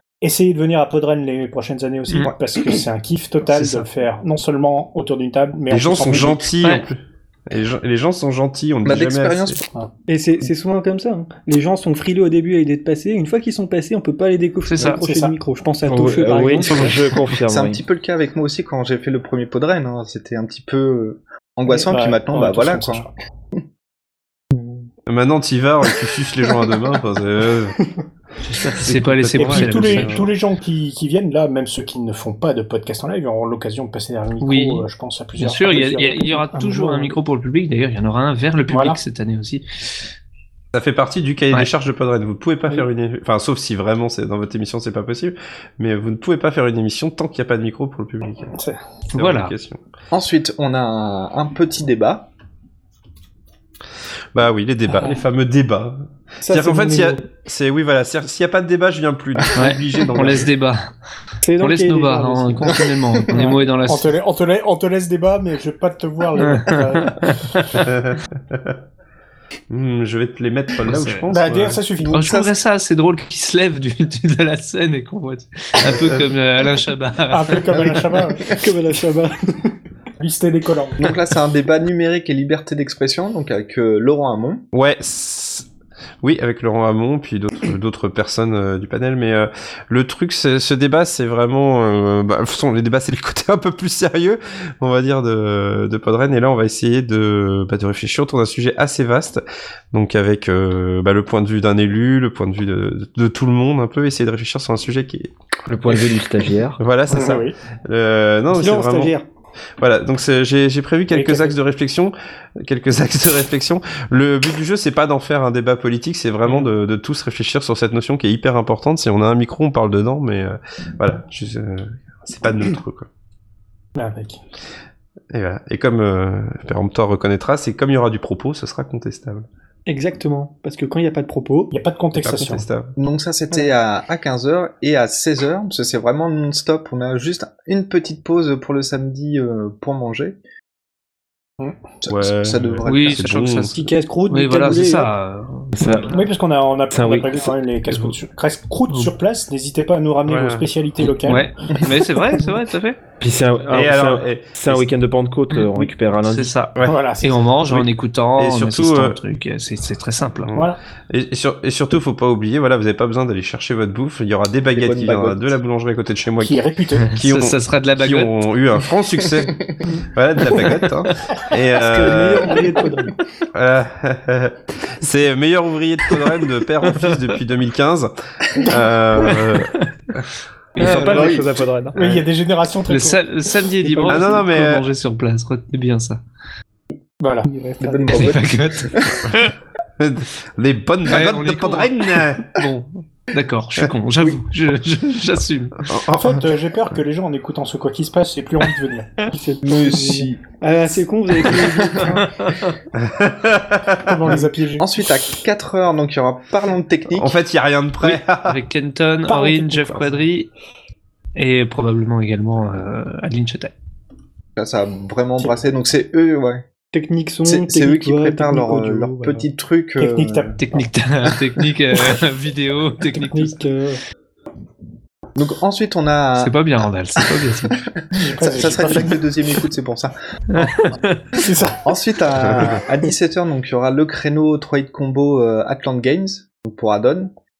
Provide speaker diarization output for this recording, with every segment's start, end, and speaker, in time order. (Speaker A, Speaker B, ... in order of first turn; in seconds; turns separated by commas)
Speaker A: 0.2-6.5, Speaker B: 3.5-3.9, Speaker C: 5.7-9.6, Speaker B: 6.6-6.9, Speaker D: 8.9-9.6, Speaker E: 10.1-17.0, Speaker B: 14.7-15.0, Speaker A: 14.8-15.4, Speaker F: 15.9-17.8, Speaker D: 17.5-23.6, Speaker A: 21.7-23.1, Speaker C: 25.1-27.8, Speaker B: 28.4-30.2, Speaker C: 28.8-30.3, Speaker A: 29.4-37.1, Speaker B: 34.4-39.6, Speaker A: 38.7-39.0, Speaker C: 40.7-48.5, Speaker B: 49.1-49.5, Speaker C: 49.1-49.8, Speaker D: 50.1-52.3, Speaker C: 54.3-60.5, Speaker E: 56.5-57.2, Speaker B: 59.5-60.9, Speaker E: 61.4-62.9, Speaker B: 61.6-64.1, Speaker A: 63.3-67.6, Speaker B: 66.4-67.7, Speaker C: 67.7-68.8, Speaker C: 69.7-71.8, Speaker B: 70.9-71.3, Speaker A: 71.3-72.2, Speaker D: 72.0-72.5, Speaker B: 72.1-77.6, Speaker A: 77.3-78.6, Speaker D: 77.7-78.2, Speaker E: 78.5-79.7, Speaker A: 80.2-81.1, Speaker D: 81.0-84.6, Speaker C: 84.7-85.7, Speaker C: 86.2-105.3, Speaker F: 105.7-106.8, Speaker C: 106.8-109.1, Speaker A: 107.1-107.6, Speaker E: 108.5-109.2, Speaker C: 109.8-123.1, Speaker A: 111.1-111.5, Speaker A: 124.0-124.4, Speaker C: 125.3-129.5, Speaker E: 129.9-131.7, Speaker A: 131.7-132.7, Speaker C: 132.2-132.9, Speaker D: 133.0-140.4, Speaker D: 142.0-143.3, Speaker C: 142.1-143.8, Speaker B: 142.8-146.3, Speaker E: 143.7-145.1, Speaker F: 145.8-146.2, Speaker A: 146.1-151.9, Speaker F: 146.9-147.5, Speaker B: 147.9-148.1, Speaker C: 150.3-150.7, Speaker B: 151.2-153.0, Speaker F: 153.2-156.5, Speaker C: 153.7-154.9, Speaker B: 155.5-160.5, Speaker A: 156.8-157.4, Speaker C: 157.7-159.2, Speaker C: 160.4-166.6, Speaker D: 164.7-165.6, Speaker A: 166.4-167.1, Speaker B: 167.1-168.3, Speaker C: 167.1-169.6, Speaker C: 170.1-172.6, Speaker E: 171.8-173.1, Speaker C: 173.5-179.7, Speaker B: 176.9-177.1, Speaker B: 180.8-181.5, Speaker C: 180.8-181.4, Speaker D: 180.8-181.6, Speaker A: 181.9-183.2, Speaker B: 182.9-186.2, Speaker E: 183.8-184.4, Speaker C: 184.1-184.8, Speaker A: 187.2-187.5, Speaker E: 187.4-188.4, Speaker D: 187.8-189.2, Speaker B: 188.1-189.5, Speaker C: 190.0-192.4, Speaker B: 191.1-195.8, Speaker C: 195.9-196.4, Speaker A: 196.1-199.4, Speaker E: 199.2-202.3, Speaker D: 199.6-200.4, Speaker D: 201.6-202.1, Speaker B: 202.2-202.7, Speaker C: 202.9-204.2, Speaker A: 204.0-204.9, Speaker D: 204.3-207.4, Speaker C: 207.1-208.6, Speaker B: 208.0-210.5, Speaker E: 209.3-210.2, Speaker B: 211.4-213.7, Speaker D: 214.6-216.6, Speaker A: 215.4-215.7, Speaker E: 216.9-219.4, Speaker D: 217.5-220.6, Speaker A: 220.0-220.8, Speaker B: 220.6-223.6, Speaker E: 223.2-224.0, Speaker D: 225.4-226.6, Speaker B: 226.4-227.8, Speaker D: 228.0-230.1, Speaker A: 228.1-229.3, Speaker B: 230.5-231.4, Speaker A: 231.4-232.8, Speaker D: 231.8-237.3, Speaker C: 232.5-232.8